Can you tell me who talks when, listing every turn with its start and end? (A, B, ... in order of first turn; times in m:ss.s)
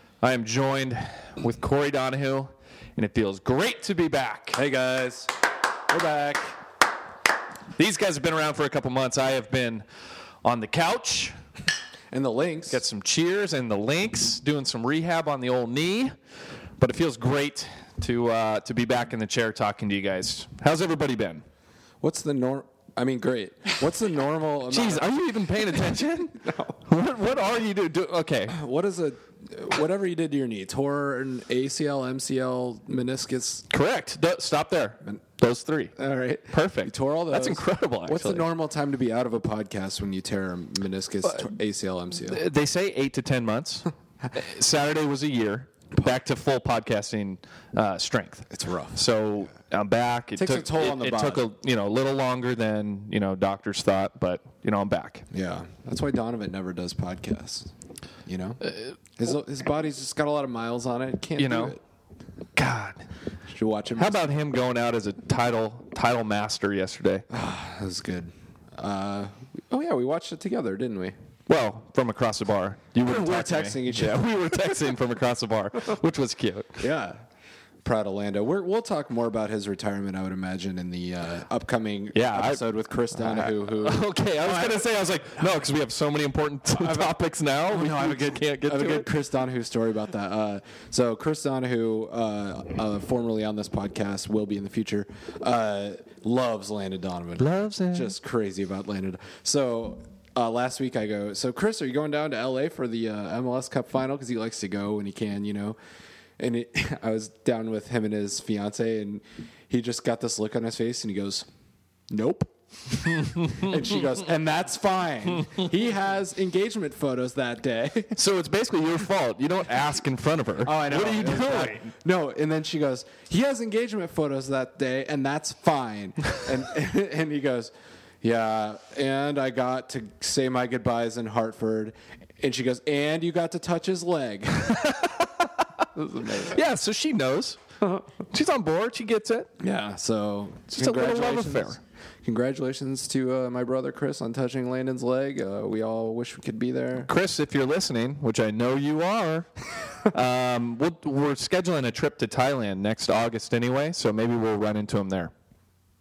0:00.2-0:04.6 A
0:04.5-0:05.3 B
0:05.9-0:06.6 B
0:07.8-0:09.8 A
0:10.4-0:11.4 A
0:12.1-0:12.8 B
0:12.7-0:16.1 A
0:16.8-0:21.4 A
0:22.0-0:25.1 B
0:24.7-0:28.6 A
0:26.4-0:26.8 B
0:28.5-0:33.6 B
0:33.7-0:35.9 A
0:36.0-0:42.4 B
0:36.5-0:38.5 A
0:42.2-0:55.2 A
0:45.9-0:46.2 B
0:48.5-0:49.0 B
0:50.4-0:51.4 B
0:55.3-0:57.7 B
0:58.2-1:01.8 B
1:01.4-1:01.8 A
1:02.5-1:03.1 A
1:03.5-1:04.2 B
1:04.0-1:07.2 A
1:07.3-1:11.2 B
1:11.5-1:16.8 A
1:13.0-1:14.3 B
1:16.8-1:17.2 B
1:17.8-1:24.9 B
1:22.1-1:29.1 A
1:26.7-1:45.8 B
1:37.4-1:38.1 A
1:46.4-1:51.4 B
1:52.1-1:58.1 B
1:53.3-1:53.7 A
1:58.1-2:01.9 A
2:00.6-2:15.0 B
2:14.8-2:15.3 A
2:15.9-2:16.6 B
2:16.4-2:17.6 A
2:18.3-2:19.5 A
2:19.6-2:27.1 B
2:20.7-2:21.8 A
2:27.0-2:29.5 A
2:30.1-2:35.3 A